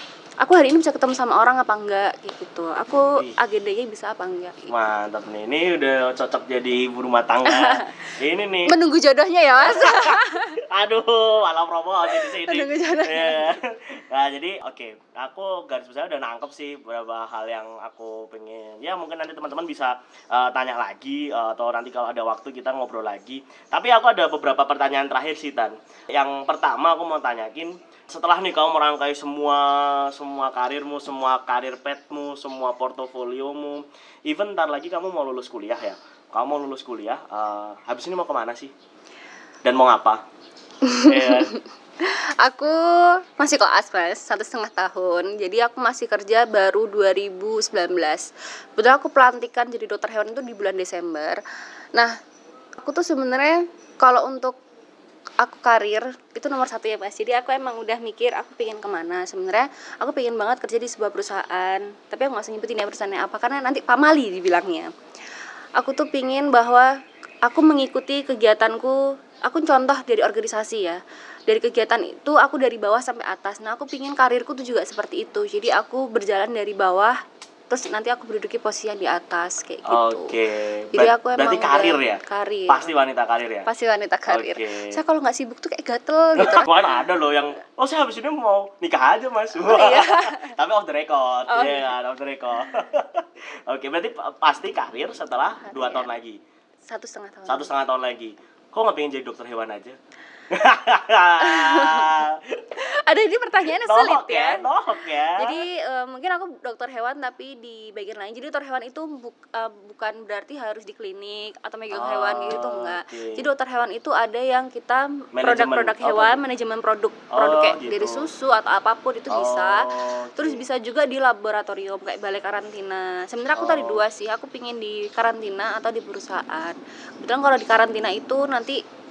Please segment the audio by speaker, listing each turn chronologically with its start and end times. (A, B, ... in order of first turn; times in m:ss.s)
0:00.4-0:04.7 A
0:04.7-0:08.7 B
0:07.4-0:07.9 A
0:08.7-0:10.6 A
0:09.6-0:38.7 B
0:12.1-0:13.5 A
0:39.6-0:40.2 B
0:40.8-0:51.4 A
0:41.0-0:41.5 B
0:52.8-0:54.6 A
0:55.4-1:04.9 A
1:05.8-1:06.9 A
1:07.5-1:17.2 A
1:17.7-1:20.3 A
1:19.9-1:23.7 B
1:20.9-1:22.9 A
1:23.7-1:26.7 A
1:24.3-1:25.0 B
1:26.4-1:36.4 B
1:29.6-1:30.5 A
1:31.5-1:31.9 A
1:35.6-1:36.1 A
1:36.9-1:37.7 A
1:37.5-1:40.0 B
1:40.5-1:42.6 B
1:41.4-1:42.1 A
1:42.8-1:44.7 A
1:43.6-1:45.6 B
1:45.4-2:08.8 A
1:51.9-1:53.4 B
1:55.4-1:56.4 B
1:57.3-1:58.3 B
1:59.3-2:00.7 B
2:03.6-2:04.0 B